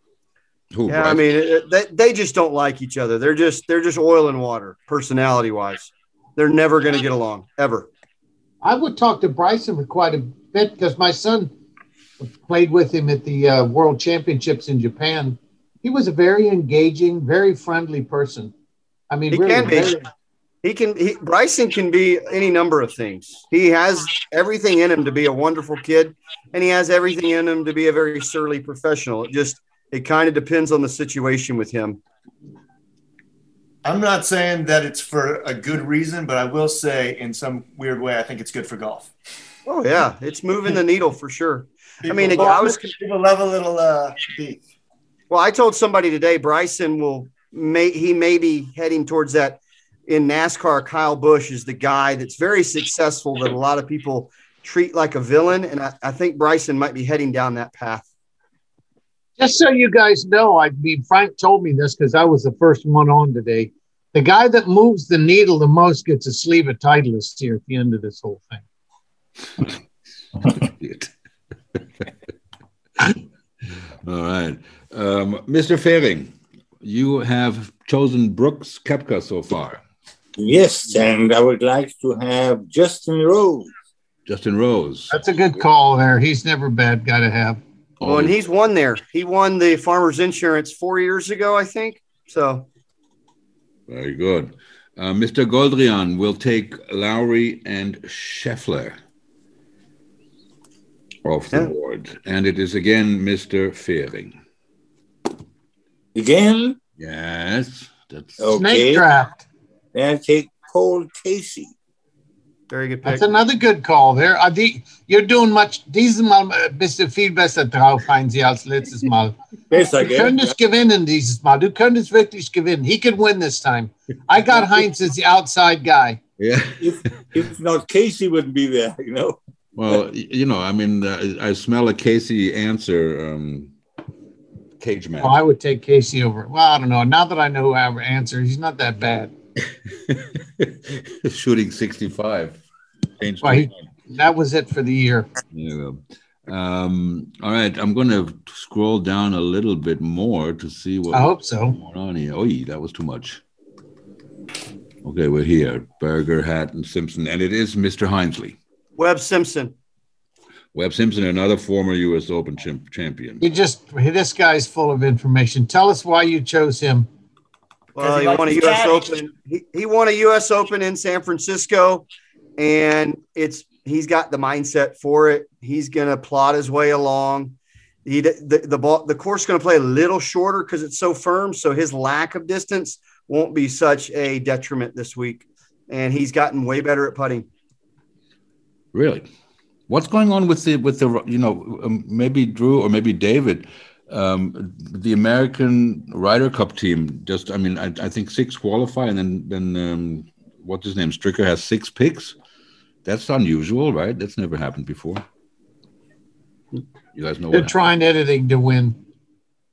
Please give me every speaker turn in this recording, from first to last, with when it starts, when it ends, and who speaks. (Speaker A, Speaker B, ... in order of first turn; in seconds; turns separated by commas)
Speaker A: 0.7-1.2, Speaker B: 0.9-7.9, Speaker C: 8.6-11.5, Speaker C: 12.2-18.5, Speaker C: 19.1-20.1, Speaker B: 19.3-20.0, Speaker B: 20.6-32.0, Speaker D: 33.8-39.1, Speaker B: 39.6-42.9, Speaker D: 42.0-44.6, Speaker B: 45.3-58.1, Speaker C: 59.4-68.6, Speaker A: 70.5-71.1, Speaker A: 74.0-79.8, Speaker E: 80.4-83.7, Speaker A: 84.3-85.2, Speaker C: 85.1-87.6, Speaker A: 88.0-88.4, Speaker B: 88.0-92.7, Speaker A: 93.9-99.0, Speaker A: 101.2-104.4, Speaker E: 106.2-106.8, Speaker A: 107.0-108.6, Speaker E: 108.4-109.1, Speaker C: 108.6-109.4, Speaker E: 109.9-111.7, Speaker B: 112.7-113.3, Speaker C: 113.0-119.4, Speaker E: 119.7-120.5, Speaker C: 119.9-126.2, Speaker A: 126.4-127.0, Speaker E: 126.8-129.4, Speaker A: 129.8-133.7, Speaker A: 134.8-135.4, Speaker C: 135.2-139.3, Speaker A: 139.9-142.6, Speaker A: 143.2-143.8, Speaker C: 143.4-145.3, Speaker A: 145.5-153.4, Speaker C: 151.1-151.8, Speaker A: 155.0-158.6, Speaker B: 159.0-159.8, Speaker A: 160.7-163.4, Speaker C: 163.4-167.1, Speaker D: 168.0-169.1, Speaker B: 168.0-187.5, Speaker A: 188.9-189.3, Speaker A: 189.9-202.4, Speaker A: 203.1-205.2, Speaker A: 207.1-207.8, Speaker C: 207.5-209.0